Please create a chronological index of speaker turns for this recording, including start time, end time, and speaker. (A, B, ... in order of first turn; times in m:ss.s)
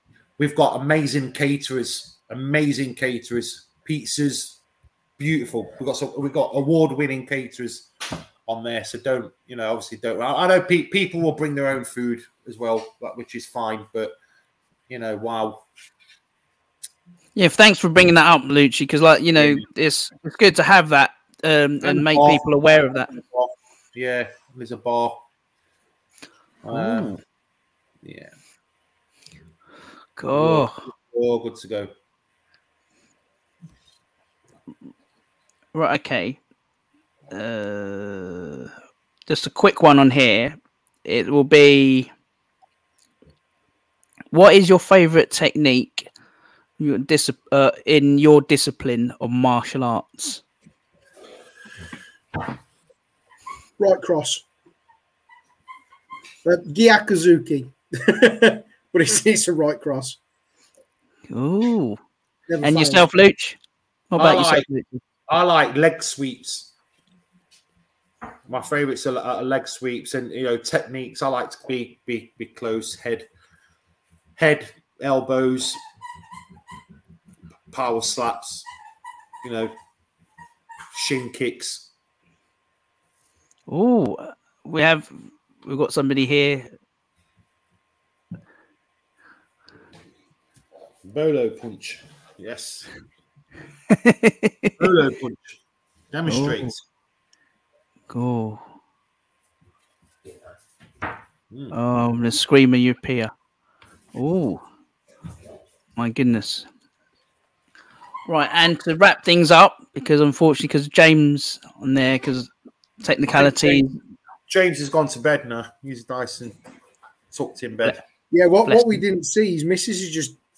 0:00.4-0:04.6 A
0:05.2-0:07.9 A
0:08.5-0:14.1 A
0:14.9-0:15.6 A
0:17.4-0:23.1 B
0:19.4-0:19.6 A
0:21.8-0:22.4 A
0:23.1-0:25.2 A
0:26.6-0:27.2 A
0:26.7-0:27.1 B
0:28.0-0:28.3 A
0:30.2-0:30.8 B
0:30.3-0:31.9 A
0:35.7-0:36.4 B
0:37.3-0:38.7 B
0:39.3-0:42.1 B
0:44.3-0:46.1 B
0:46.8-0:50.4 B
0:53.8-0:54.4 C
0:56.4-1:00.2 C
1:01.3-1:02.0 B
1:02.5-1:03.0 C
1:02.6-1:03.6 B
1:04.1-1:05.0 B
1:04.2-1:04.7 A
1:05.3-1:06.7 A
1:08.5-1:13.3 A
1:14.4-1:15.8 A
1:17.7-1:18.7 A
1:19.4-1:19.7 A
1:20.9-1:21.9 A
1:23.7-1:26.7 B
1:31.0-1:32.9 A
1:33.9-1:34.8 B
1:34.8-1:35.6 A
1:36.1-1:36.8 A
1:36.3-1:36.7 B
1:38.1-1:38.6 B
1:41.5-1:41.8 A
1:41.7-1:43.3 B
1:44.1-1:44.6 B
1:46.0-1:46.7 B
1:48.3-1:52.5 B
1:53.0-1:53.9 B
1:53.3-1:53.9 A
1:54.5-1:56.6 A
1:57.3-1:58.0 A
1:58.3-2:00.4 C
1:58.7-1:59.0 B